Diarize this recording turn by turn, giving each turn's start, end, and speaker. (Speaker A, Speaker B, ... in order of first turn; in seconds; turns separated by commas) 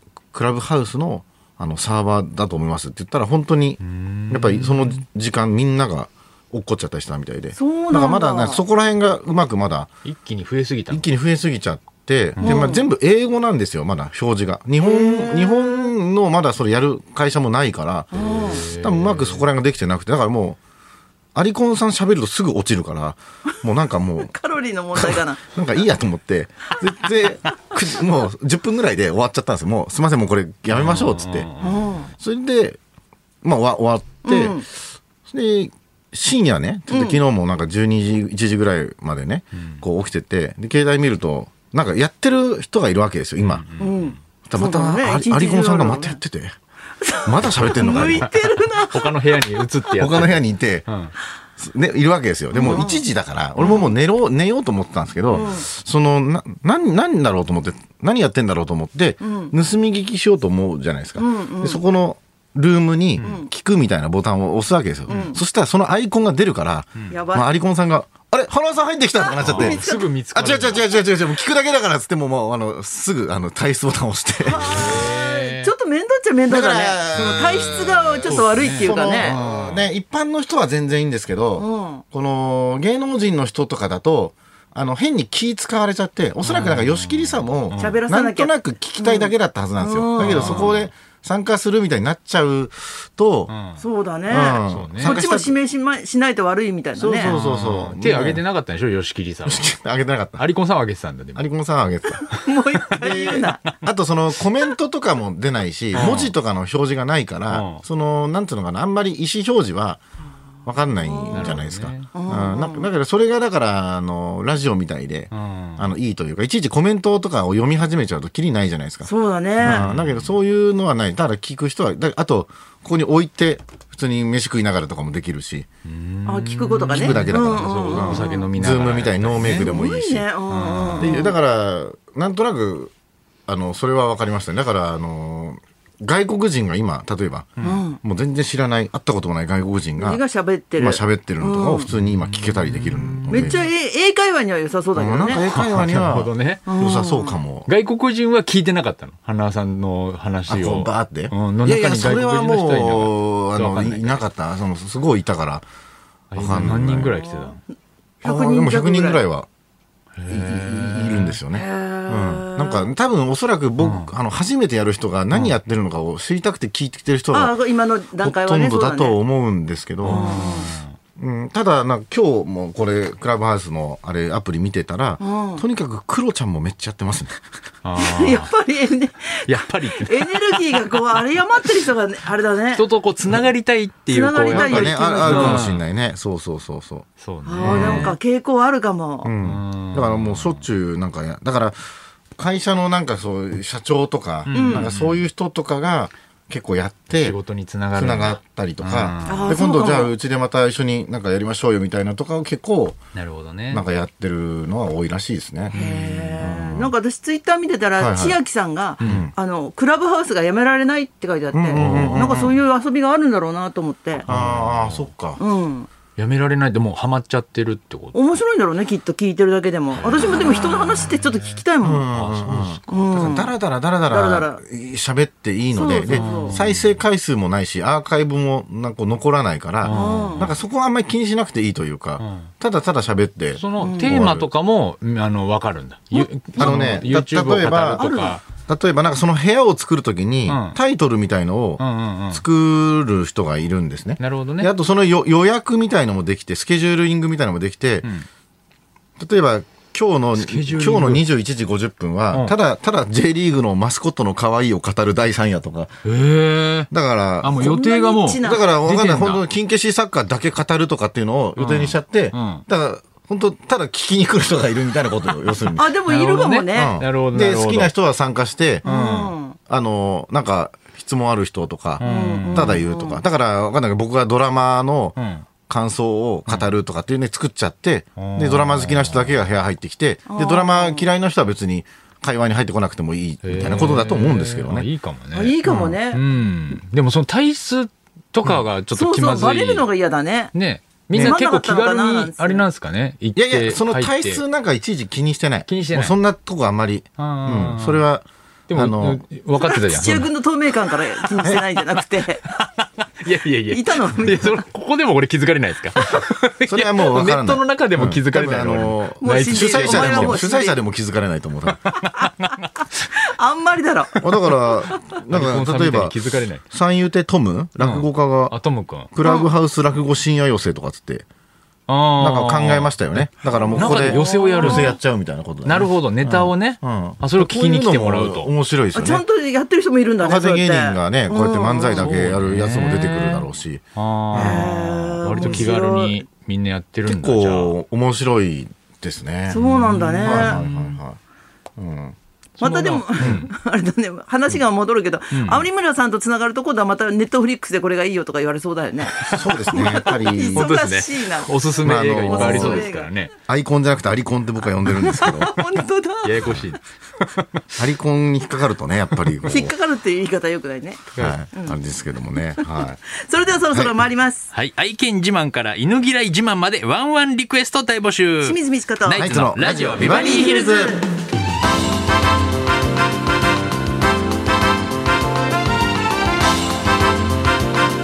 Speaker A: 0.3-3.8, Speaker B: 3.8-5.0, Speaker A: 4.3-9.9, Speaker C: 7.5-8.6, Speaker B: 10.0-11.1, Speaker A: 10.9-20.6, Speaker B: 12.3-12.7, Speaker C: 12.4-12.8, Speaker C: 14.8-15.9, Speaker B: 18.1-19.4, Speaker C: 18.1-18.6, Speaker A: 21.3-24.3, Speaker C: 24.2-25.4, Speaker A: 24.9-31.5, Speaker B: 30.7-31.8, Speaker C: 31.6-32.1, Speaker A: 32.2-32.8, Speaker A: 33.4-34.7, Speaker C: 34.2-34.6, Speaker A: 35.3-43.6, Speaker C: 36.9-37.2, Speaker B: 39.6-39.8, Speaker B: 43.4-44.2, Speaker C: 43.8-46.2, Speaker A: 44.4-46.5, Speaker C: 47.0-49.6, Speaker A: 47.2-48.3, Speaker B: 47.6-51.1, Speaker A: 50.0-50.9, Speaker A: 51.6-75.0, Speaker C: 52.5-53.1, Speaker C: 53.6-53.9, Speaker C: 55.3-55.6, Speaker C: 59.2-59.5, Speaker C: 61.2-61.8, Speaker C: 63.2-63.5, Speaker B: 65.1-65.3, Speaker C: 65.1-65.4, Speaker C: 67.1-67.5, Speaker C: 69.2-70.1, Speaker B: 69.4-70.9, Speaker C: 74.4-79.4, Speaker B: 74.6-75.7, Speaker A: 76.5-93.5, Speaker B: 78.2-79.9, Speaker C: 81.6-82.0, Speaker B: 86.4-88.0, Speaker C: 87.8-90.7, Speaker B: 90.2-90.9, Speaker B: 93.5-93.8, Speaker C: 93.8-97.3, Speaker A: 94.3-95.6, Speaker B: 94.7-95.2, Speaker A: 97.0-98.4, Speaker B: 97.2-99.7, Speaker A: 99.5-100.5, Speaker B: 100.4-101.5, Speaker A: 101.3-102.4, Speaker C: 102.1-103.6, Speaker A: 103.0-110.0, Speaker B: 103.0-103.7, Speaker B: 105.9-106.3, Speaker B: 107.5-107.8, Speaker A: 110.6-119.1, Speaker C: 111.0-111.6, Speaker B: 111.3-112.1, Speaker C: 112.1-112.9, Speaker B: 115.3-115.9, Speaker C: 119.0-119.8, Speaker B: 119.6-120.3, Speaker A: 119.6-125.7, Speaker B: 125.8-129.7, Speaker C: 126.2-128.5, Speaker A: 126.9-130.3, Speaker C: 129.4-131.3, Speaker B: 130.5-131.2, Speaker A: 131.0-132.9, Speaker A: 133.5-140.2, Speaker C: 137.6-138.0, Speaker C: 140.0-141.9, Speaker A: 140.8-143.6, Speaker B: 141.9-143.6, Speaker C: 143.3-145.4, Speaker A: 144.9-147.7, Speaker B: 145.4-146.7, Speaker C: 146.7-147.4, Speaker B: 147.7-154.2, Speaker A: 150.5-155.6, Speaker B: 156.3-157.6, Speaker A: 156.3-157.1, Speaker C: 157.2-157.5, Speaker C: 158.2-159.2, Speaker A: 158.2-159.5, Speaker B: 160.2-161.4, Speaker A: 160.3-167.6, Speaker C: 161.5-162.9, Speaker B: 163.8-164.1, Speaker C: 167.3-169.2, Speaker A: 168.2-170.4, Speaker B: 170.0-170.9, Speaker C: 170.0-170.7, Speaker A: 171.2-177.4, Speaker C: 175.2-175.6, Speaker B: 177.8-178.5, Speaker C: 178.0-182.8, Speaker B: 179.4-181.2, Speaker B: 182.7-185.8, Speaker C: 184.1-185.7, Speaker A: 184.5-187.1, Speaker B: 187.2-188.2, Speaker C: 187.4-189.3, Speaker A: 187.6-188.2, Speaker A: 189.2-191.8, Speaker B: 189.4-190.7, Speaker A: 192.4-197.4, Speaker B: 194.4-195.2, Speaker C: 194.5-194.9, Speaker B: 197.1-199.6, Speaker A: 197.9-203.0, Speaker C: 199.2-200.1, Speaker B: 203.1-203.8, Speaker A: 203.7-205.8, Speaker B: 205.7-206.4, Speaker C: 205.7-214.2, Speaker A: 206.4-206.9, Speaker A: 208.0-208.4, Speaker B: 209.0-209.3, Speaker A: 209.0-209.3, Speaker A: 211.5-212.6, Speaker B: 211.7-212.3, Speaker B: 214.2-215.1, Speaker A: 214.3-215.4, Speaker C: 215.4-215.9, Speaker B: 216.2-218.2, Speaker C: 218.1-222.1, Speaker B: 219.9-221.6, Speaker A: 221.8-234.5, Speaker B: 222.1-222.9, Speaker C: 222.9-223.6, Speaker C: 224.1-224.6, Speaker C: 225.7-226.6, Speaker B: 226.1-227.0, Speaker B: 229.8-230.6, Speaker C: 229.9-230.5, Speaker B: 232.2-232.5, Speaker B: 233.5-238.4, Speaker C: 233.8-234.2, Speaker A: 236.6-238.1, Speaker C: 237.9-238.4, Speaker A: 238.6-248.1, Speaker B: 240.5-240.8, Speaker B: 241.8-242.4, Speaker B: 244.2-244.7, Speaker A: 249.2-255.9, Speaker B: 250.3-251.3, Speaker B: 256.0-256.9, Speaker A: 256.9-257.8, Speaker B: 257.4-259.4, Speaker C: 257.6-258.7, Speaker A: 258.4-265.9, Speaker B: 261.6-262.6, Speaker C: 265.8-266.9, Speaker B: 266.1-267.9, Speaker A: 266.7-268.9, Speaker B: 268.8-269.3, Speaker C: 268.8-269.6, Speaker A: 269.7-284.9, Speaker B: 272.0-272.8, Speaker C: 272.0-273.2, Speaker B: 275.1-275.4, Speaker B: 276.5-276.7, Speaker B: 278.1-279.4, Speaker C: 280.3-281.1, Speaker B: 283.4-289.9, Speaker C: 285.3-286.2, Speaker C: 288.9-290.5, Speaker B: 290.5-294.4, Speaker A: 291.1-291.4, Speaker C: 291.1-292.7, Speaker A: 293.3-299.2, Speaker B: 295.7-296.2, Speaker B: 297.2-298.0, Speaker B: 298.7-300.3, Speaker C: 299.6-302.4, Speaker B: 302.4-310.5, Speaker C: 303.7-304.6, Speaker A: 306.6-311.8, Speaker C: 309.2-310.8, Speaker B: 311.8-312.9, Speaker C: 313.1-314.1, Speaker B: 314.1-314.5, Speaker A: 314.2-316.2, Speaker B: 315.2-316.6, Speaker A: 316.7-318.6, Speaker B: 317.8-319.1, Speaker A: 319.1-321.2, Speaker C: 319.2-319.5, Speaker B: 321.9-325.0, Speaker A: 322.2-329.2, Speaker C: 323.4-325.0, Speaker B: 325.6-328.5, Speaker C: 328.9-332.1, Speaker A: 330.2-334.7, Speaker B: 331.9-337.8, Speaker C: 334.3-336.2, Speaker A: 335.4-335.7, Speaker A: 337.1-339.6, Speaker C: 339.5-340.6, Speaker B: 339.6-341.0, Speaker A: 340.2-341.2, Speaker A: 341.8-342.2, Speaker B: 342.6-343.5, Speaker C: 342.6-353.1, Speaker A: 343.2-343.5, Speaker B: 345.3-345.6, Speaker A: 349.2-350.7, Speaker B: 349.7-353.3, Speaker A: 351.8-352.9, Speaker A: 353.5-355.6, Speaker C: 354.9-356.6, Speaker B: 356.2-357.6, Speaker A: 357.8-359.7, Speaker B: 359.2-359.5, Speaker C: 359.5-361.8, Speaker B: 361.1-361.4, Speaker A: 361.2-363.0, Speaker C: 362.4-364.5, Speaker B: 364.5-370.7, Speaker C: 368.4-369.3, Speaker A: 369.1-371.0, Speaker C: 369.9-371.0